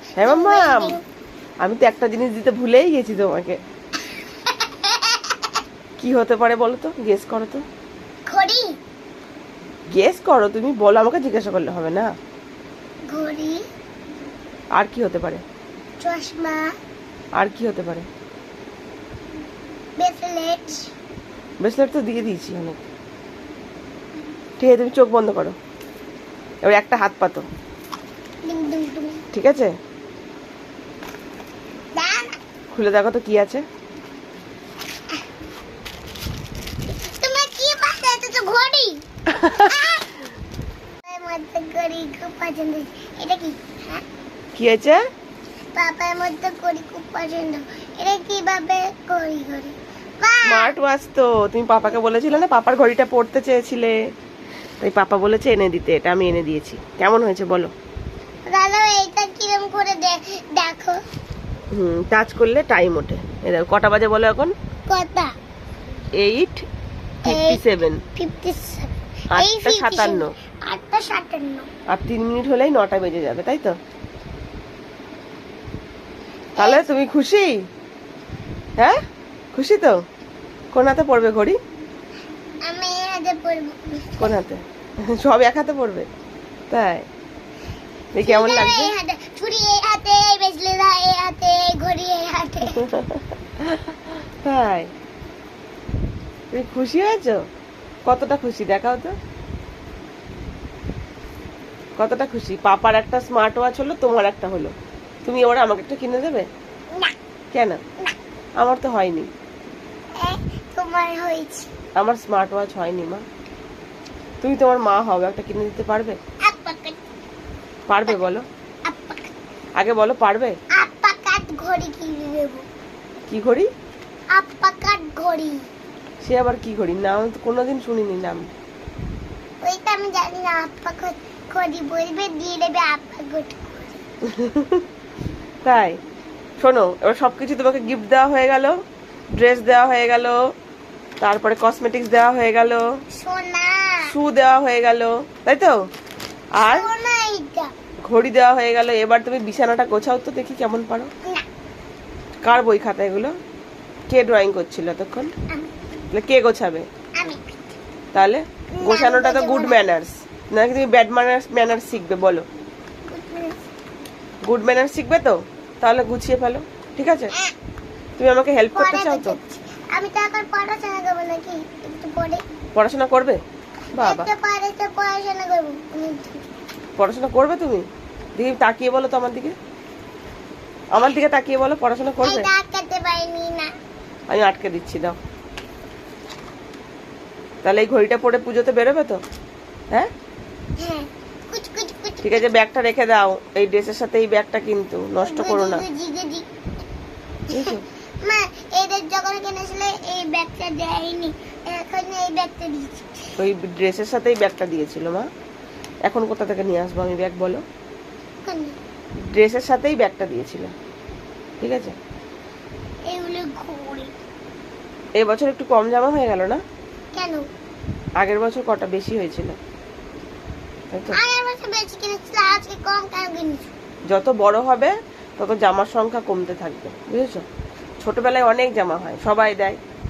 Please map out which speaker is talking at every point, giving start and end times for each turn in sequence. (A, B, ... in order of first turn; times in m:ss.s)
0:00.2-0:01.0 A
0:00.2-0:01.0 B
0:01.6-0:03.6 A
0:04.5-0:05.3 B
0:06.0-0:07.6 A
0:08.3-0:08.7 B
0:09.9-0:12.1 A
0:13.1-0:13.6 B
0:14.8-0:15.4 A
0:16.0-0:16.7 B
0:17.4-0:18.1 A
0:20.0-0:20.9 B
0:21.6-0:22.8 A
0:24.6-0:25.6 A
0:26.6-0:27.4 A
0:28.4-0:29.2 B
0:29.3-0:29.7 A
0:32.0-0:32.4 B
0:32.7-0:33.6 A
0:36.9-0:40.1 B
0:41.1-0:44.0 B
0:44.5-0:45.0 A
0:45.8-0:50.7 B
0:50.5-0:54.0 A
0:54.8-0:57.7 A
0:58.5-1:01.0 B
1:01.7-1:04.5 A
1:04.9-1:05.3 B
1:06.2-1:06.6 A
1:07.2-1:07.6 B
1:07.2-1:08.0 A
1:08.1-1:11.7 B
1:09.3-1:10.3 A
1:11.9-1:13.7 A
1:16.6-1:16.8 B
1:16.6-1:17.6 A
1:19.5-1:20.0 A
1:20.7-1:21.6 A
1:22.7-1:24.3 B
1:24.2-1:26.1 A
1:26.7-1:27.0 A
1:28.1-1:28.9 A
1:28.2-1:32.8 B
1:32.8-1:34.9 A
1:36.5-1:37.4 A
1:38.0-1:39.2 A
1:42.0-1:44.7 A
1:45.2-1:46.5 A
1:47.5-1:47.8 A
1:48.6-1:49.3 A
1:50.2-1:51.7 B
1:52.0-1:53.2 A
1:54.4-1:56.2 A
1:56.4-1:57.0 B
1:57.9-1:58.4 A
1:58.8-1:59.3 B
1:59.8-2:00.6 A
2:00.7-2:02.6 B
2:03.3-2:03.7 A
2:04.3-2:05.6 B
2:06.2-2:08.4 A
2:09.6-2:14.0 B
2:14.3-2:14.8 A
2:15.6-2:16.0 A
2:16.6-2:18.7 A
2:19.4-2:20.4 A
2:21.2-2:22.8 A
2:23.1-2:24.1 B
2:24.1-2:25.8 A
2:26.6-2:26.9 A
2:26.6-2:27.7 B
2:28.1-2:31.1 A
2:32.4-2:33.3 A
2:34.1-2:35.3 A
2:36.1-2:36.8 A
2:37.2-2:37.7 B
2:38.1-2:42.4 A
2:38.7-2:39.8 B
2:43.1-2:43.6 B
2:44.5-2:47.3 A
2:48.2-2:49.4 A
2:48.7-2:52.4 B
2:52.7-2:53.4 A
2:54.0-2:54.3 A
2:54.0-2:56.4 B
2:57.0-2:57.8 A
2:58.4-2:59.5 A
3:00.9-3:02.5 A
3:02.2-3:03.7 B
3:04.3-3:05.2 A
3:07.6-3:09.2 A
3:10.8-3:12.4 B
3:12.2-3:15.8 A
3:15.2-3:16.4 B
3:17.5-3:17.8 A
3:18.2-3:23.3 B
3:23.4-3:25.2 A
3:26.0-3:27.6 A
3:28.5-3:28.8 B
3:29.3-3:30.7 A
3:31.6-3:31.9 A
3:33.1-3:34.1 B
3:35.2-3:36.6 A
3:37.2-3:37.4 B
3:38.2-3:39.6 A
3:40.9-3:41.2 A
3:41.1-3:43.7 B
3:44.1-3:47.4 A
3:48.0-3:49.8 A